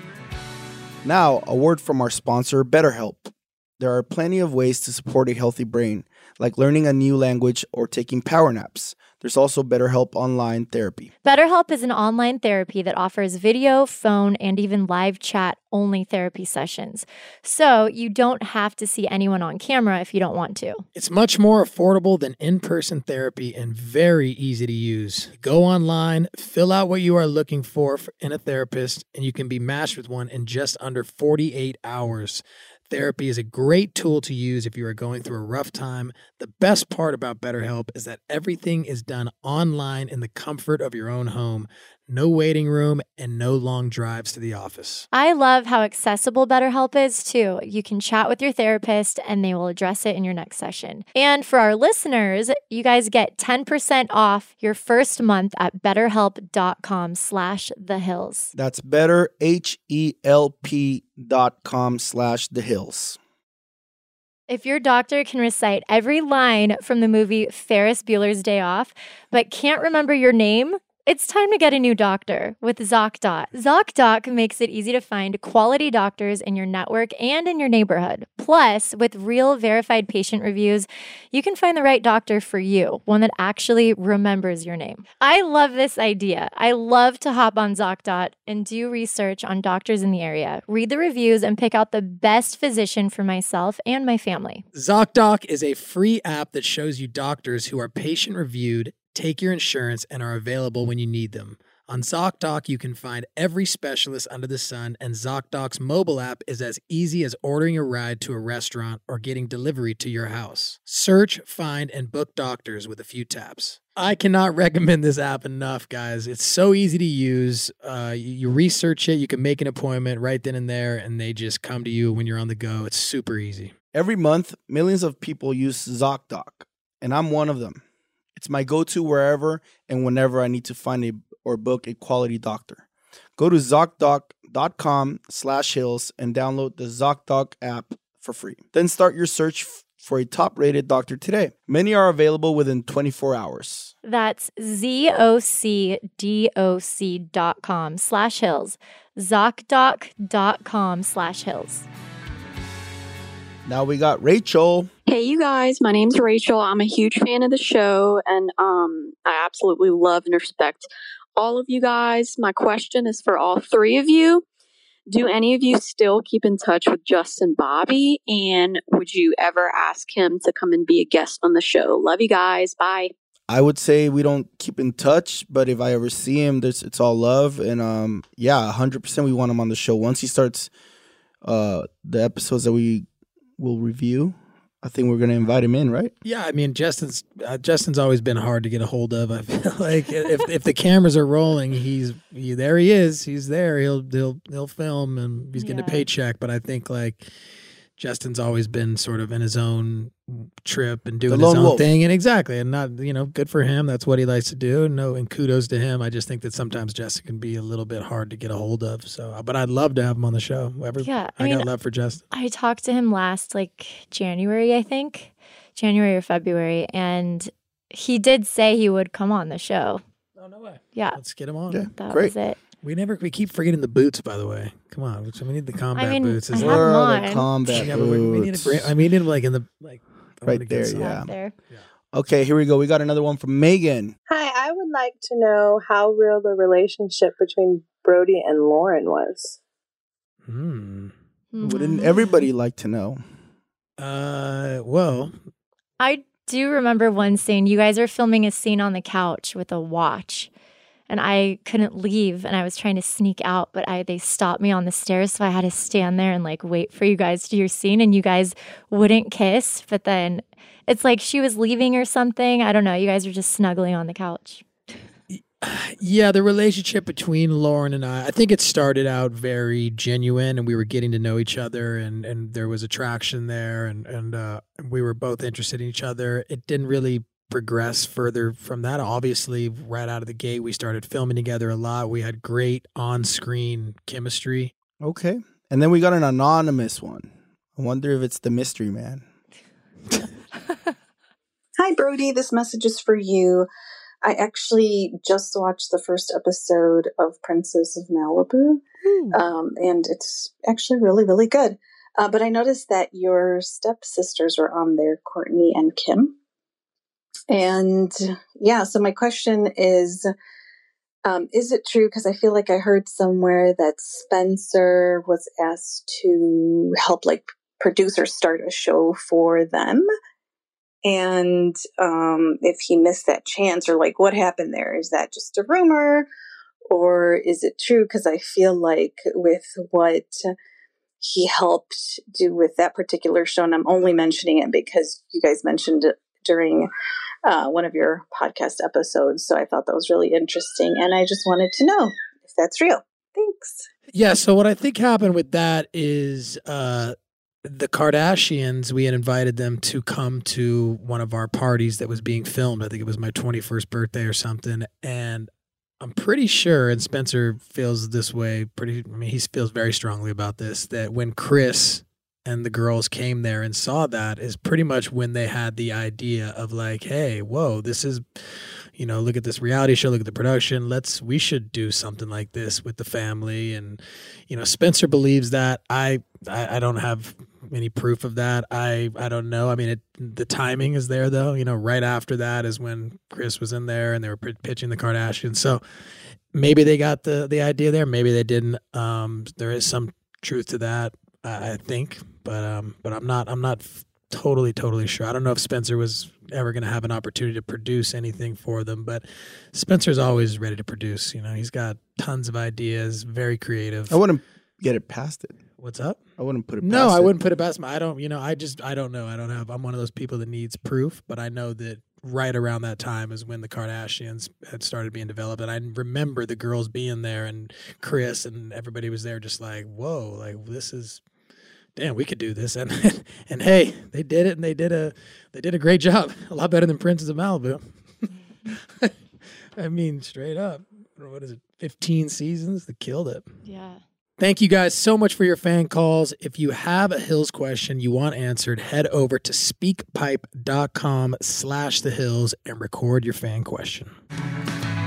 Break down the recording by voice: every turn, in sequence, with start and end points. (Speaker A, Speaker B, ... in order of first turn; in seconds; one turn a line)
Speaker A: 1.0-11.1
Speaker B: 11.2-20.9
Speaker C: 20.9-45.1
Speaker B: 45.1-58.5
Speaker A: 58.5-63.2
Speaker B: 64.5-94.6
Speaker C: 94.8-123.7
Speaker A: 123.9-127.8
Speaker A: 128.3-132.9
Speaker A: 133.4-143.9
Speaker B: 144.0-151.9
Speaker A: 153.7-154.9
Speaker D: 155.1-164.4
Speaker D: 165.1-173.1
Speaker A: 173.5-180.7
Speaker A: 181.4-183.1
Speaker A: 183.6-186.1
Speaker C: 186.2-197.3
Speaker B: 195.6-196.1
Speaker C: 198.0-212.2
Speaker A: 201.3-201.9
Speaker B: 211.0-211.7
Speaker B: 212.3-220.0
Speaker C: 220.4-221.8
Speaker B: 220.9-221.2
Speaker A: 221.7-222.3
Speaker B: 221.9-222.6
Speaker C: 222.8-226.9
Speaker B: 225.9-227.9
Speaker A: 226.6-228.9
Speaker C: 227.7-231.8
Speaker A: 230.5-231.3
Speaker B: 230.9-231.5
Speaker A: 232.1-234.2
Speaker E: 234.3-239.6
Speaker C: 240.5-241.1
Speaker B: 241.5-242.3
Speaker A: 241.6-243.2
Speaker C: 244.0-245.3
Speaker B: 246.0-250.5
Speaker B: 251.1-264.6
Speaker C: 265.3-284.7
Speaker A: 285.0-289.2
Speaker F: 291.8-293.7
Speaker F: 294.2-306.3
Speaker C: 299.0-299.4
Speaker F: 307.5-310.3
Speaker F: 311.2-320.1
Speaker F: 321.0-326.3
Speaker F: 326.9-330.5
Speaker F: 331.2-336.9
Speaker F: 337.4-343.9
Speaker C: 344.1-385.8
Speaker C: 386.5-404.2
Speaker A: 404.1-405.6
Speaker C: 405.8-406.2
Speaker A: 406.4-407.3
Speaker C: 406.8-421.2
Speaker C: 422.0-427.9
Speaker C: 428.7-429.1
Speaker C: 429.8-433.5
Speaker B: 433.6-434.0
Speaker C: 434.4-444.1